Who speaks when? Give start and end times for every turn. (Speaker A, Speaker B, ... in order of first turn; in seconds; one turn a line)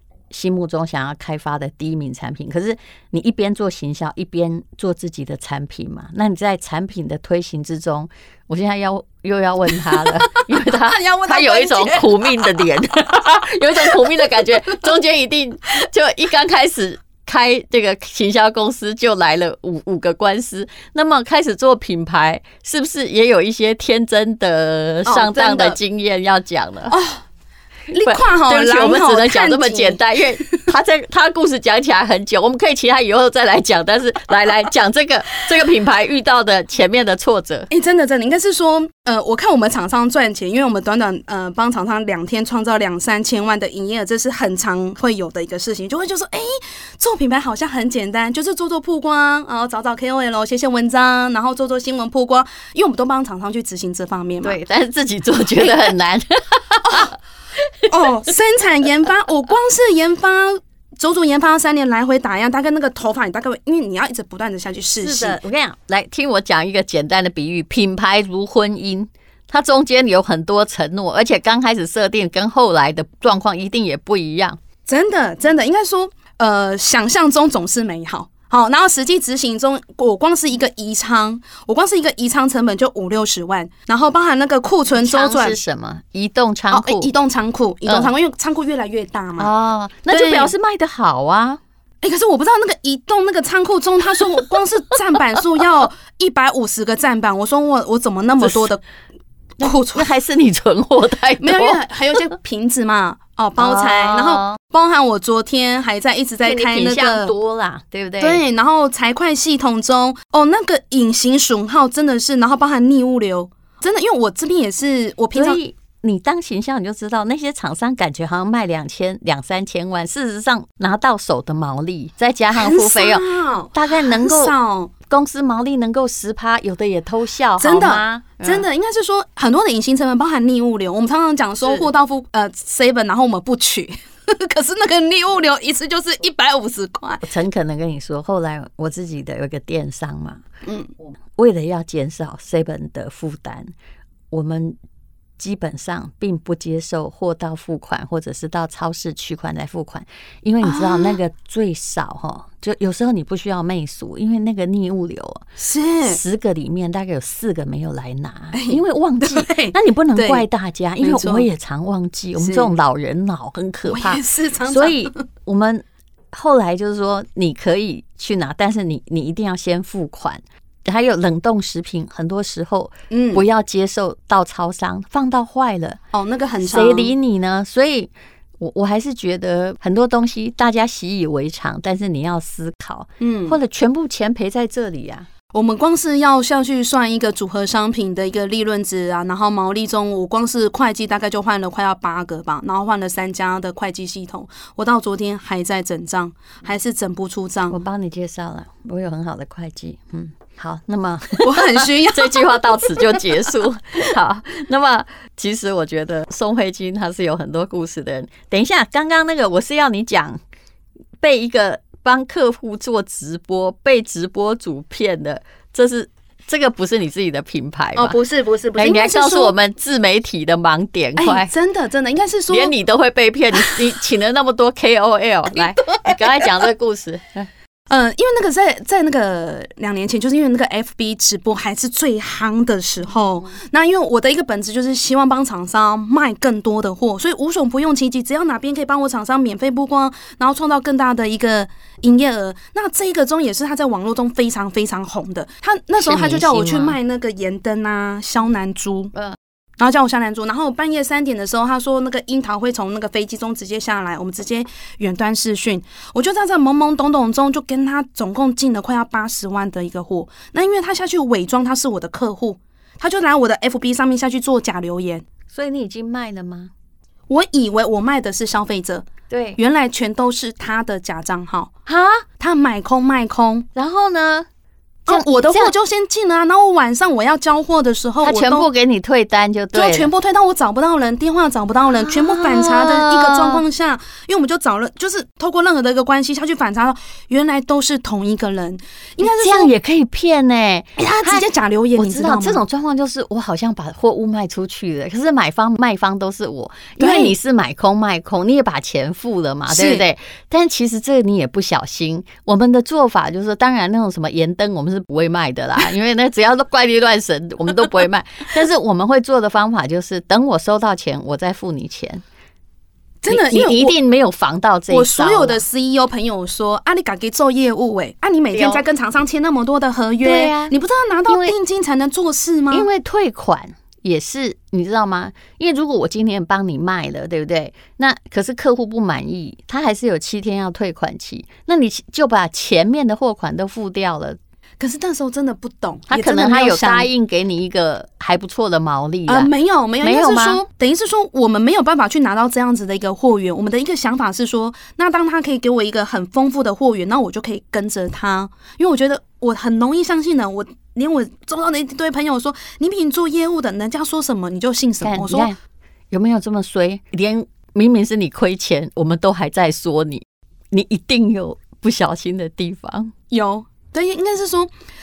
Speaker A: 0.3-26.9
Speaker B: 10.2-12.7
Speaker B: 13.8-14.7
Speaker B: 25.1-25.8
Speaker B: 26.9-27.2
Speaker B: 27.9-30.7
Speaker A: 28.1-37.7
Speaker B: 37.7-54.6
Speaker A: 54.4-57.1
Speaker B: 56.9-57.1
Speaker B: 57.9-65.4
Speaker A: 65.0-74.6
Speaker B: 74.9-85.6
Speaker A: 84.9-87.1
Speaker B: 86.7-89.5
Speaker A: 89.4-91.6
Speaker B: 90.1-90.5
Speaker B: 92.0-98.8
Speaker A: 98.4-98.7
Speaker B: 99.6-100.1
Speaker A: 99.6-101.8
Speaker B: 101.4-107.3
Speaker A: 103.6-104.6
Speaker A: 106.4-108.4
Speaker B: 108.2-115.6
Speaker A: 115.3-124.5
Speaker B: 122.5-124.9
Speaker A: 125.1-128.6
Speaker B: 127.6-137.2
Speaker A: 137.2-140.4
Speaker B: 140.6-140.9
Speaker A: 141.3-143.7
Speaker A: 144.3-144.8
Speaker A: 145.4-155.5
Speaker B: 150.6-151.2
Speaker B: 155.6-156.2
Speaker A: 156.1-176.0
Speaker B: 158.5-160.4
Speaker B: 161.0-161.4
Speaker B: 162.4-162.7
Speaker B: 163.9-165.2
Speaker B: 173.1-173.4
Speaker B: 176.1-177.1
Speaker A: 176.6-185.3
Speaker B: 183.2-183.6
Speaker B: 185.5-197.8
Speaker A: 197.7-210.4
Speaker B: 201.4-203.2
Speaker A: 211.2-218.2
Speaker B: 217.9-219.5
Speaker A: 218.8-221.5
Speaker B: 221.2-222.7
Speaker A: 222.5-227.5
Speaker B: 225.6-226.7
Speaker B: 227.9-249.1
Speaker A: 246.0-246.9
Speaker B: 249.8-265.2
Speaker A: 265.5-266.7
Speaker B: 267.3-271.7
Speaker A: 269.3-269.6
Speaker A: 271.9-272.3
Speaker B: 272.4-273.6
Speaker A: 273.8-274.5
Speaker B: 275.1-278.7
Speaker A: 275.1-275.7
Speaker A: 278.2-280.1
Speaker B: 279.7-289.7
Speaker A: 281.9-283.6
Speaker A: 289.2-291.4
Speaker B: 291.0-292.6
Speaker A: 292.0-312.2
Speaker B: 297.0-297.4
Speaker B: 299.7-300.1
Speaker B: 313.2-313.9
Speaker A: 313.3-315.6
Speaker B: 314.9-322.9
Speaker A: 318.5-318.8
Speaker A: 320.2-320.8
Speaker A: 321.3-321.6
Speaker A: 322.7-334.4
Speaker B: 334.8-337.1
Speaker A: 336.1-339.5
Speaker B: 339.3-355.5
Speaker A: 340.0-340.6
Speaker A: 355.0-355.6
Speaker A: 356.1-363.1
Speaker B: 363.3-364.7